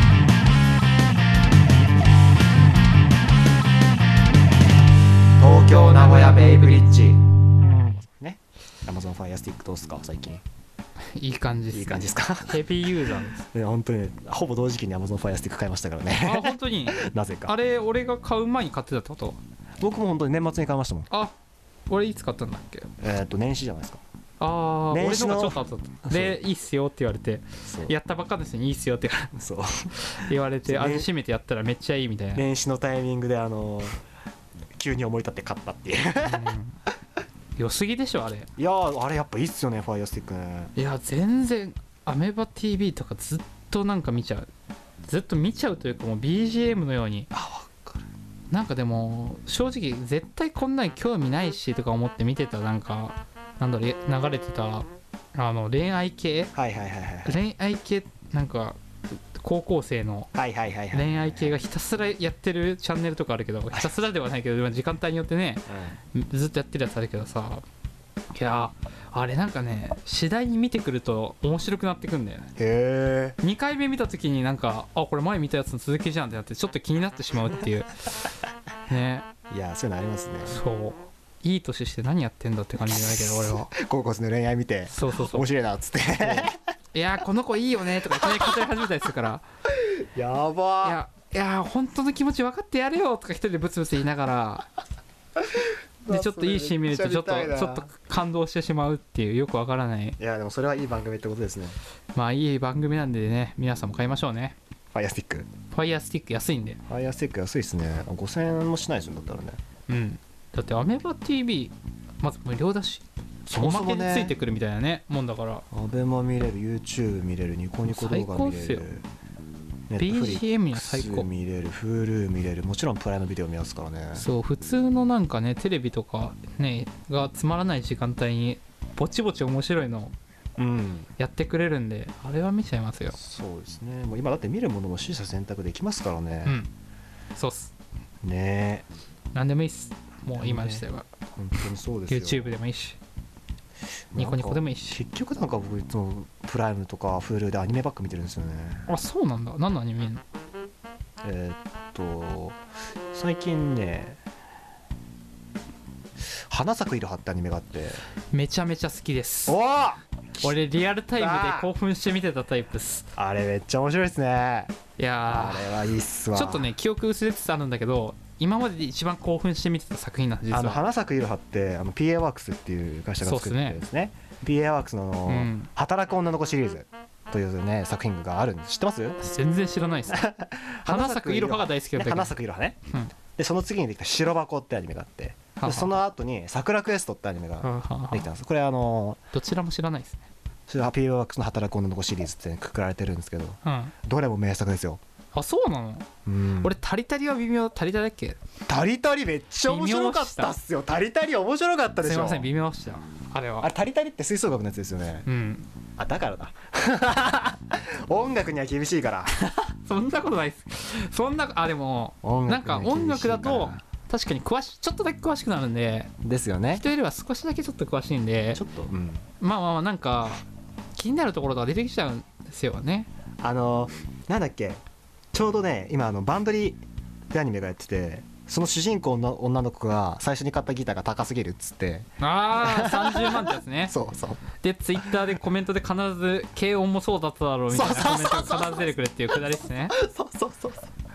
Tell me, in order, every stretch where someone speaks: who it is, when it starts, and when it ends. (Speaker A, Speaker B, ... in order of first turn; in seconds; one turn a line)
Speaker A: 5.4-7.2
Speaker A: 7.8-10.4
Speaker B: 11.1-13.4
Speaker A: 11.7-17.5
Speaker B: 16.2-19.4
Speaker A: 19.8-21.1
Speaker B: 21.9-22.9
Speaker A: 23.0-24.0
Speaker B: 24.4-29.3
Speaker A: 24.9-26.4
Speaker A: 27.6-27.9
Speaker A: 29.4-31.1
Speaker B: 30.0-32.4
Speaker A: 32.3-34.0
Speaker A: 34.8-36.5
Speaker B: 36.2-36.8
Speaker B: 37.6-38.5
Speaker A: 38.6-40.7
Speaker B: 40.8-44.5
Speaker B: 45.0-47.3
Speaker A: 47.3-48.0
Speaker B: 48.5-56.5
Speaker A: 56.5-57.4
Speaker B: 57.2-60.3
Speaker A: 60.3-61.5
Speaker B: 60.9-67.6
Speaker A: 63.7-64.0
Speaker A: 65.7-66.0
Speaker B: 68.3-72.5
Speaker A: 72.6-73.4
Speaker B: 73.4-77.9
Speaker B: 78.9-79.2
Speaker A: 79.5-80.6
Speaker B: 80.5-83.7
Speaker A: 82.8-86.5
Speaker B: 84.9-85.5
Speaker B: 86.2-89.4
Speaker A: 89.8-91.0
Speaker B: 90.8-94.7
Speaker A: 95.5-97.9
Speaker B: 96.1-100.2
Speaker A: 100.2-101.8
Speaker B: 102.1-104.5
Speaker A: 104.9-105.5
Speaker B: 105.7-106.8
Speaker A: 106.8-109.6
Speaker B: 109.9-113.0
Speaker A: 113.5-114.3
Speaker B: 113.5-115.6
Speaker A: 115.7-119.0
Speaker B: 117.8-118.9
Speaker A: 119.9-124.2
Speaker B: 120.0-121.3
Speaker B: 124.1-130.1
Speaker A: 130.6-131.1
Speaker B: 131.2-133.2
Speaker A: 133.1-136.6
Speaker B: 137.3-137.7
Speaker A: 138.2-138.9
Speaker B: 139.3-141.1
Speaker A: 140.4-140.8
Speaker A: 141.3-142.6
Speaker B: 142.1-143.0
Speaker A: 144.1-148.9
Speaker B: 144.1-145.0
Speaker B: 148.9-150.2
Speaker A: 151.2-152.6
Speaker A: 153.1-154.2
Speaker A: 156.5-158.0
Speaker B: 158.3-159.6
Speaker A: 159.5-160.5
Speaker B: 160.4-163.1
Speaker A: 161.2-161.7
Speaker A: 163.2-164.7
Speaker B: 165.0-170.8
Speaker A: 165.3-166.7
Speaker A: 170.5-179.2
Speaker B: 173.2-173.8
Speaker B: 175.3-175.7
Speaker B: 179.2-180.2
Speaker A: 180.1-182.8
Speaker B: 180.8-182.3
Speaker A: 183.3-189.2
Speaker B: 185.6-185.9
Speaker B: 187.6-188.3
Speaker B: 189.3-190.3
Speaker A: 190.7-195.0
Speaker B: 193.6-193.9
Speaker B: 195.3-196.1
Speaker A: 196.2-196.7
Speaker B: 196.6-198.4
Speaker A: 198.7-202.5
Speaker B: 199.6-200.6
Speaker B: 202.0-203.7
Speaker A: 203.6-205.3
Speaker B: 205.2-205.7
Speaker A: 206.0-209.4
Speaker B: 209.3-216.1
Speaker A: 212.2-213.8
Speaker A: 216.2-216.8
Speaker B: 216.7-218.6
Speaker A: 218.5-219.3
Speaker B: 219.4-223.1
Speaker A: 223.4-224.8
Speaker A: 225.3-226.8
Speaker A: 227.3-234.4
Speaker B: 232.2-233.9
Speaker B: 234.6-239.9
Speaker A: 237.7-240.9